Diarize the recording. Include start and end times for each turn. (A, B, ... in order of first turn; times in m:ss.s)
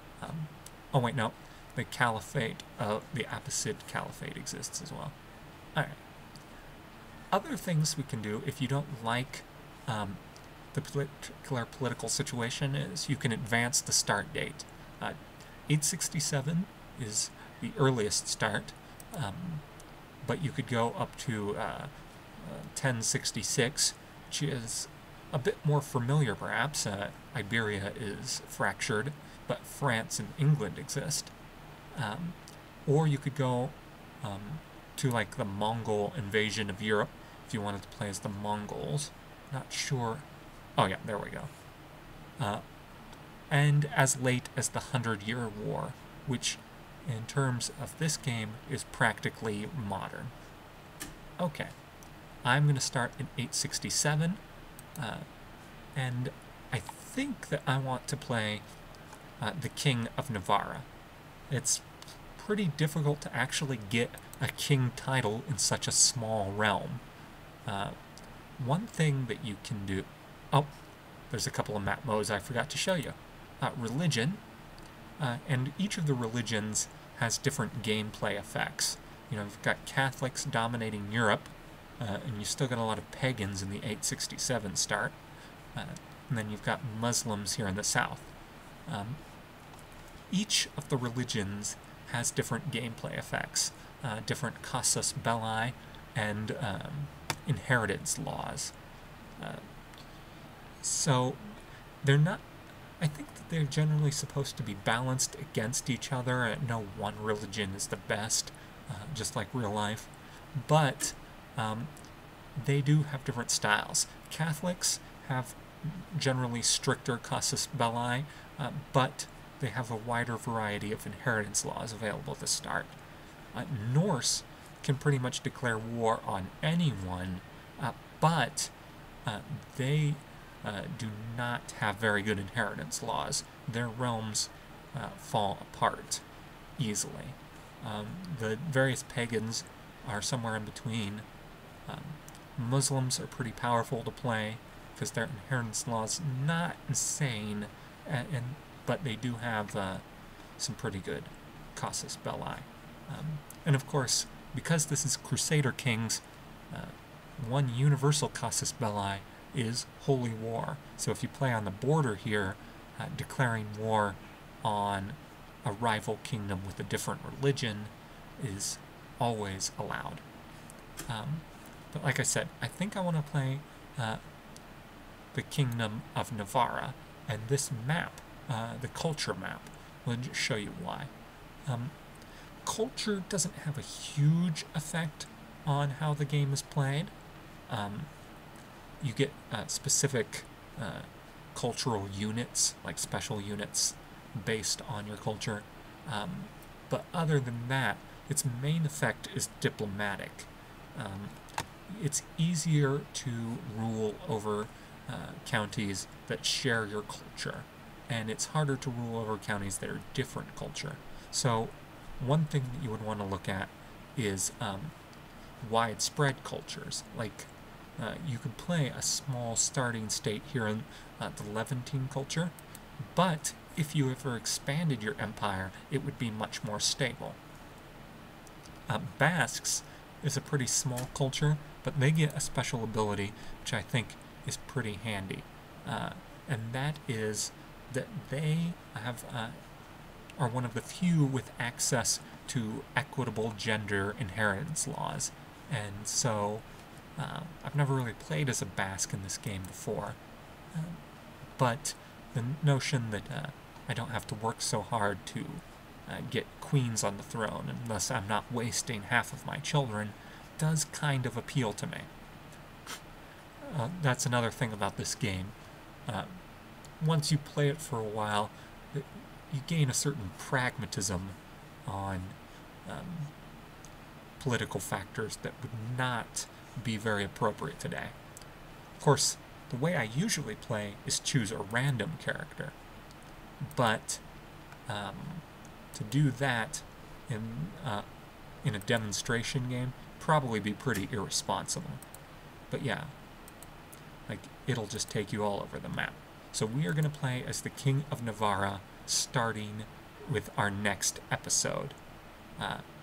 0:00.2-0:05.1 A
0:05.7-0:06.0 A
0:07.3-0:10.2 A
0:10.7-0:19.6 A
0:20.2-0:31.3 A
0:31.9-0:41.5 A
0:42.4-0:42.6 A
0:43.5-0:50.3 A
0:51.4-0:51.7 A
0:52.4-0:54.4 A
0:55.0-0:55.2 A
0:55.9-0:58.6 A
0:59.4-1:00.9 A
1:01.5-1:07.0 A
1:07.6-1:08.0 A
1:08.6-1:10.7 A
1:11.3-1:14.4 A
1:15.2-1:25.2 A
1:25.7-1:28.3 A
1:28.8-1:29.2 A
1:30.3-1:38.7 A
1:39.4-1:39.7 A
1:40.8-1:42.4 A
1:43.0-1:51.9 A
1:52.6-2:03.0 A
2:03.5-2:08.7 A
2:09.2-2:16.2 A
2:16.8-2:21.2 A
2:21.8-2:30.0 A
2:30.6-2:50.2 A
2:51.0-2:54.2 A
2:55.3-3:01.1 A
3:01.6-3:01.9 A
3:02.6-3:07.1 A
3:07.7-3:08.1 A
3:09.0-3:21.4 A
3:21.9-3:34.9 A
3:35.6-3:47.4 A
3:48.9-3:59.6 A
4:00.4-4:06.6 A
4:07.2-4:10.2 A
4:10.7-4:11.0 A
4:11.6-4:22.1 A
4:23.6-4:26.4 A
4:27.0-4:33.3 A
4:34.4-4:38.2 A
4:39.0-4:42.8 A
4:43.6-4:44.2 A
4:44.9-4:48.0 A
4:48.6-4:52.0 A
4:52.7-4:53.1 A
4:54.3-5:02.0 A
5:02.6-5:02.8 A